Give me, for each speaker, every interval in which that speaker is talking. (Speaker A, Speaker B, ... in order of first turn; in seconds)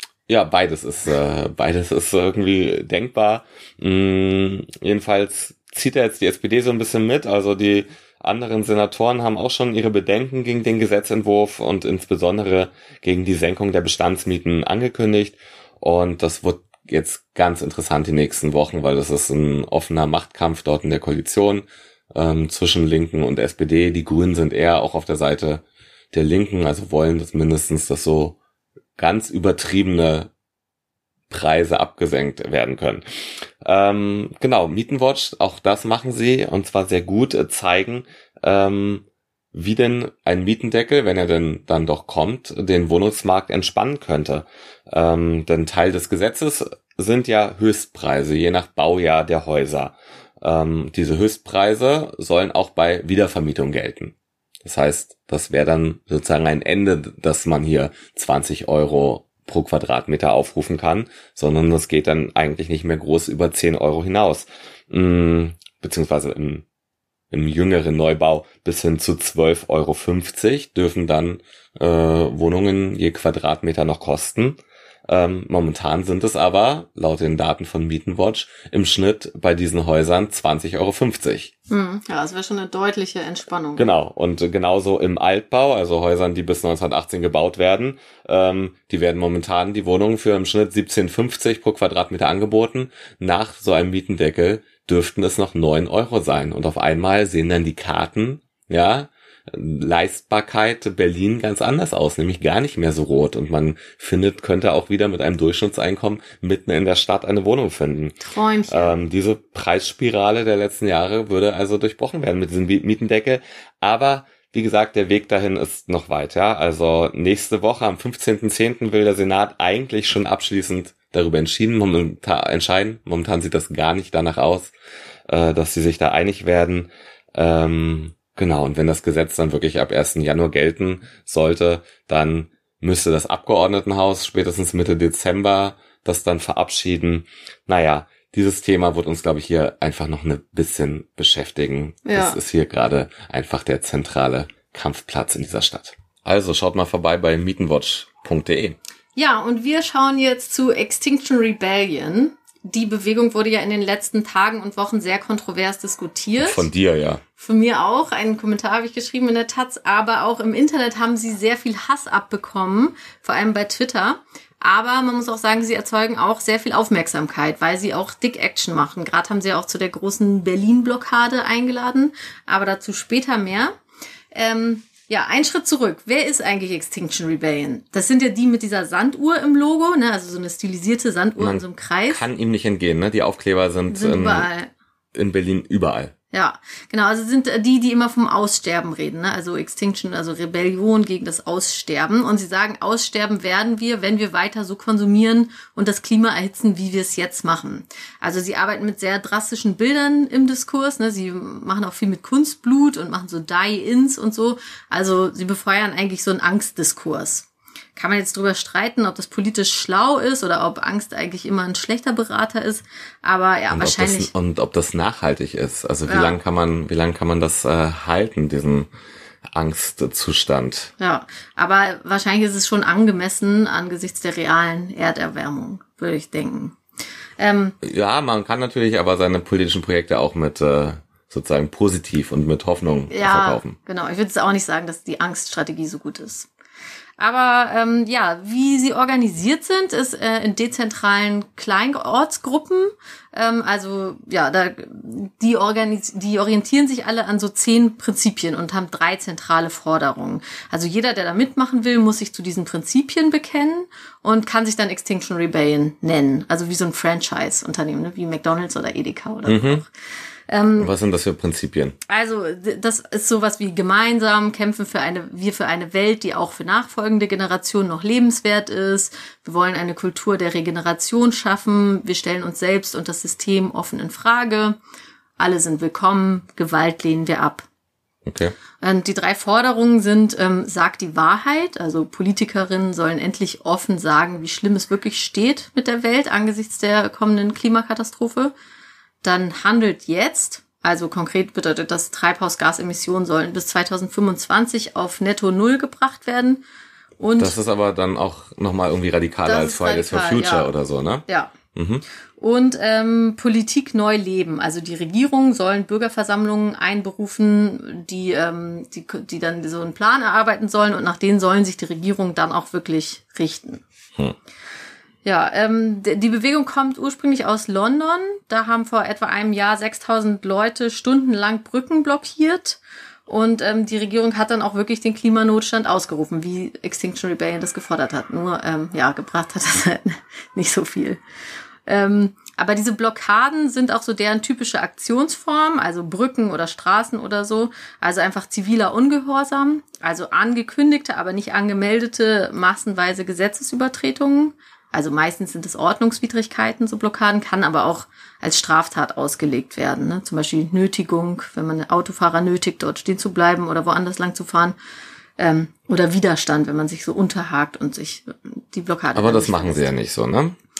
Speaker A: 0.3-28.4, 29.0-30.3, 31.3-33.0, 33.6-66.6, 67.3-81.5, 83.8-108.2, 108.7-124.7, 125.3-148.8, 156.4-157.2, 181.4-184.5, 185.1-186.1, 213.7-218.9, 219.5-220.9, 227.8-233.8, 259.4-259.8, 260.8-262.0, 278.2-278.6, 297.4-302.0, 359.1-360.6
Speaker B: 81.7-83.9, 108.2-108.9, 142.0-142.4, 149.2-156.7, 157.4-173.8, 174.3-182.2, 183.9-184.7, 186.3-214.3, 216.1-216.4, 221.0-226.8, 227.4-227.8, 233.1-236.5, 237.2-259.9, 260.5-260.9, 262.1-274.8, 275.4-277.6, 278.8-288.5, 289.2-296.6, 297.2-297.6, 299.4-300.7, 301.3-301.5, 302.4-313.8, 315.2-331.2, 331.9-354.8, 355.4-359.9